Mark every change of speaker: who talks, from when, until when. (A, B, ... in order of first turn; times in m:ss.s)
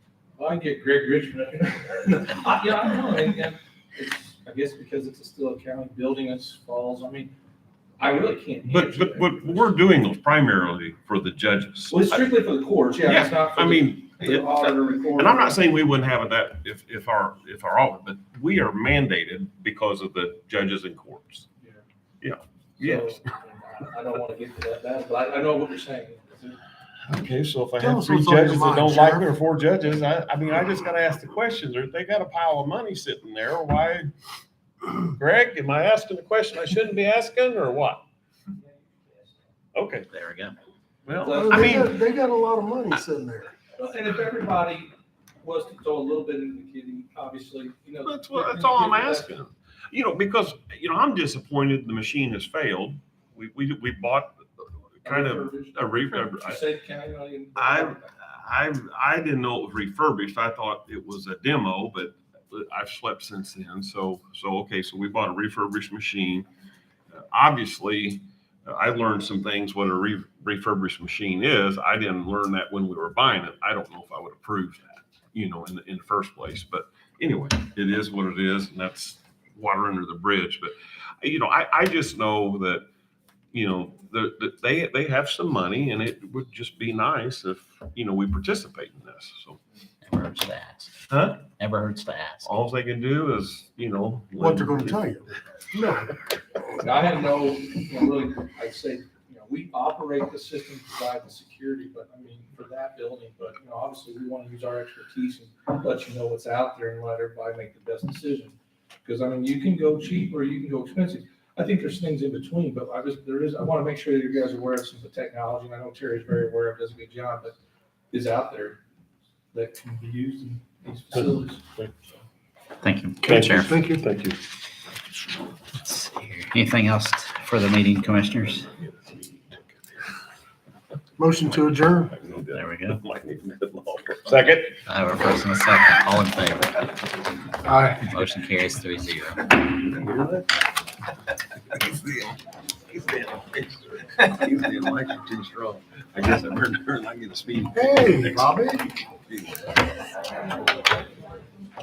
0:00.4-0:07.3 A
0:08.0-0:09.7 A
0:08.6-0:12.3 B
0:11.9-0:15.6 A
0:13.0-0:21.5 B
0:22.2-0:23.2 B
0:22.8-0:26.6 A
0:27.1-0:34.1 B
0:27.8-0:29.3 C
0:35.1-0:38.1 B
0:39.8-0:40.1 B
0:40.1-0:40.6 D
0:41.1-0:41.9 B
0:41.2-0:41.7 A
0:41.3-0:43.5 C
0:43.8-0:44.9 A
0:45.4-0:49.3 A
0:48.1-0:54.4 B
0:55.0-0:56.6 B
0:55.0-0:58.1 A
0:57.6-1:06.5 B
1:07.1-1:22.8 B
1:23.5-1:29.6 B
1:30.0-1:32.6 D
1:31.1-1:31.5 B
1:32.4-1:35.2 B
1:34.4-1:36.2 C
1:36.8-1:57.6 A
1:58.1-1:58.8 A
1:59.5-2:01.7 A
2:01.1-2:01.9 B
2:02.8-2:03.7 D
2:03.2-2:04.1 C
2:03.2-2:04.4 B
2:05.8-2:08.7 D
2:08.7-2:09.8 B
2:11.2-2:12.1 C
2:11.4-2:14.8 B
2:12.5-2:13.0 D
2:14.9-2:16.8 D
2:17.7-2:18.0 C
2:18.0-2:19.5 D
2:19.7-2:20.4 B
2:21.7-2:29.7 B
2:27.7-2:28.9 C